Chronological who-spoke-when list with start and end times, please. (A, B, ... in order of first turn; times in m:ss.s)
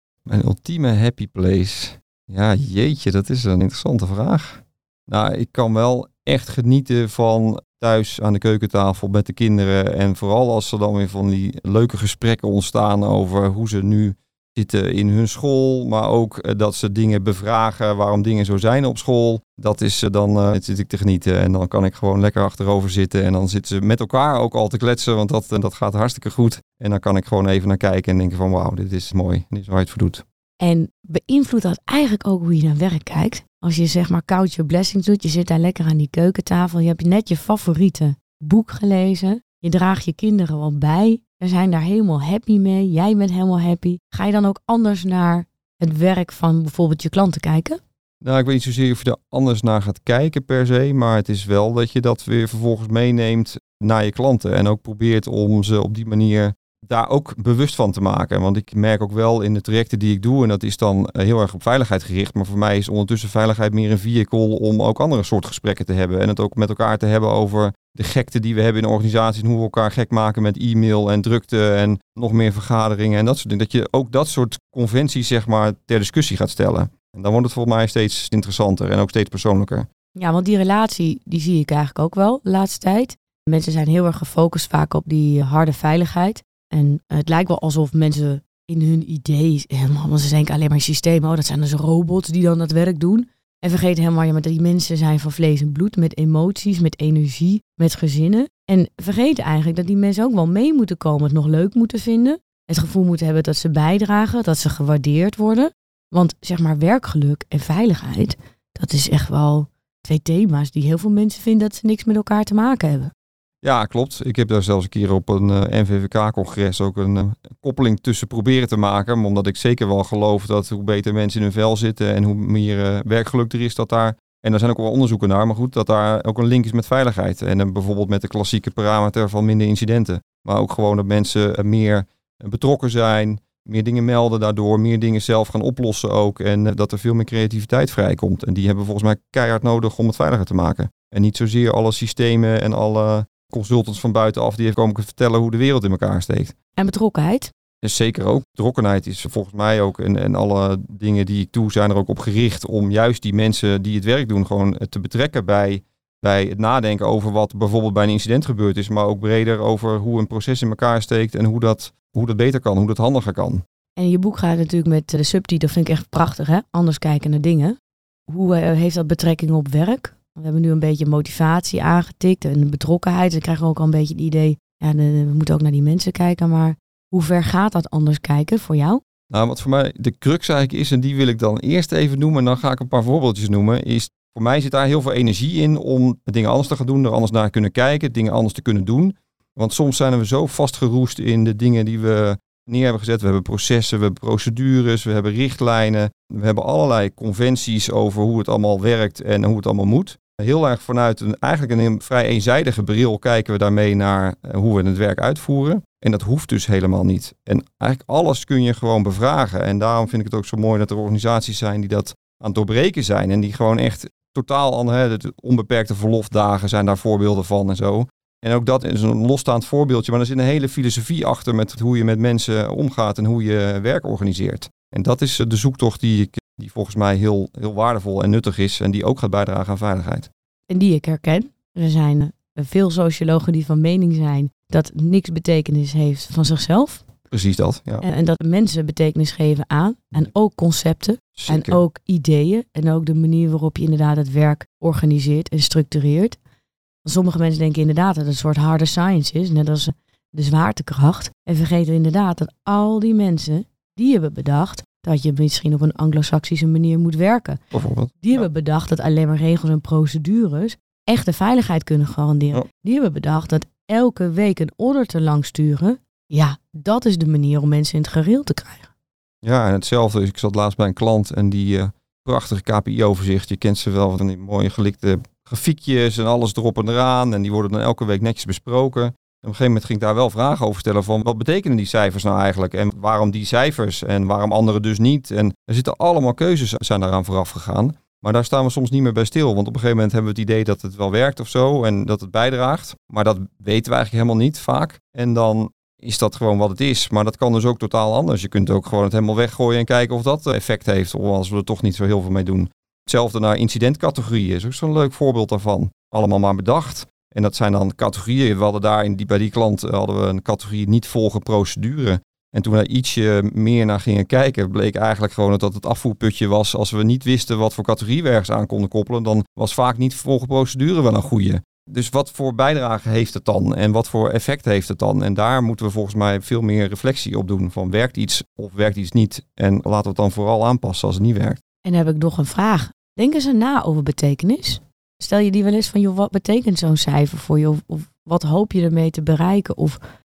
0:00.2-0:30.2 A
0:30.6-0:47.8 B
0:48.2-1:19.9 A
1:20.1-1:53.1 B
1:53.6-2:26.5 A
2:26.8-2:27.5 B
2:27.8-2:43.6 A
2:44.0-2:47.8 B
2:48.3-2:59.0 B
2:59.3-3:50.3 A
3:50.7-3:57.0 B
3:57.3-3:58.0 A
3:58.0-4:06.4 B
4:01.4-4:01.8 A
4:07.0-4:17.6 B
4:17.7-4:18.5 A
4:18.2-4:28.9 B
4:29.4-5:31.6 A
5:31.8-5:40.0 B